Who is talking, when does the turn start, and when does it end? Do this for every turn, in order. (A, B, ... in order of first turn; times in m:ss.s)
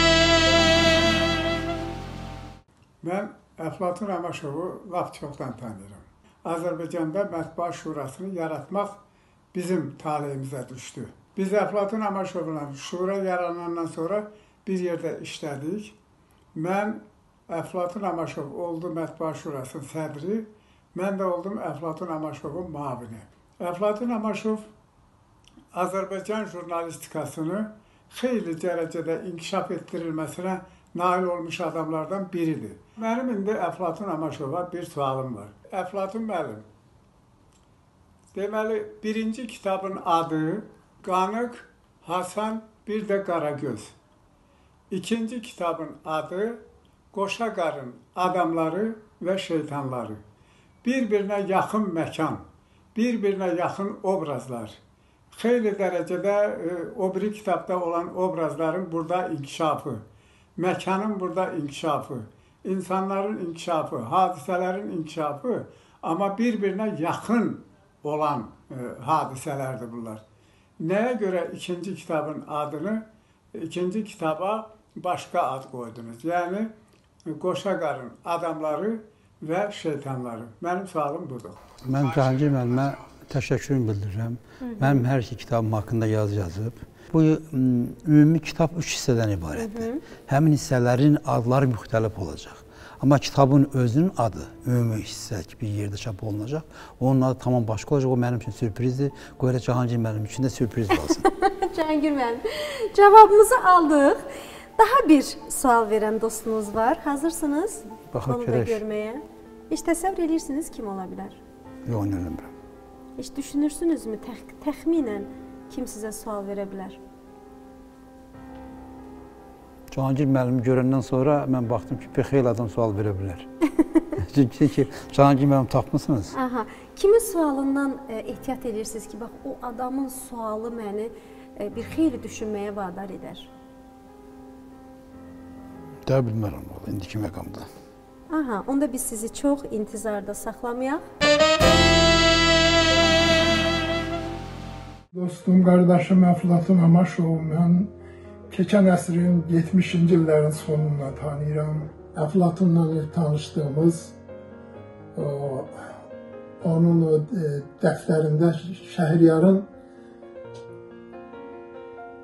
0:03.0-0:09.0 A
0:09.5-0:16.0 A
0:16.5-0:24.7 A
0:25.7-0:36.7 A
0:38.3-0:43.9 A
0:44.9-0:50.2 A
0:50.8-0:54.8 A
0:55.3-1:00.0 A
1:00.6-1:10.2 A
1:10.8-1:16.7 A
1:17.2-1:21.6 A
1:21.8-1:41.2 B
1:24.6-1:25.0 C
1:29.6-1:30.0 C
1:41.2-1:44.2 C
1:44.8-1:51.4 C
1:48.1-1:48.8 B
1:51.8-1:52.5 B
1:53.2-1:57.0 C
1:59.9-2:03.5 B
2:04.2-2:06.4 B
2:06.3-2:13.5 C
2:16.0-2:17.7 B
2:18.3-2:21.0 C
2:25.1-2:27.9 D
2:28.5-2:34.2 D
2:35.1-2:35.7 D
2:36.6-2:39.7 D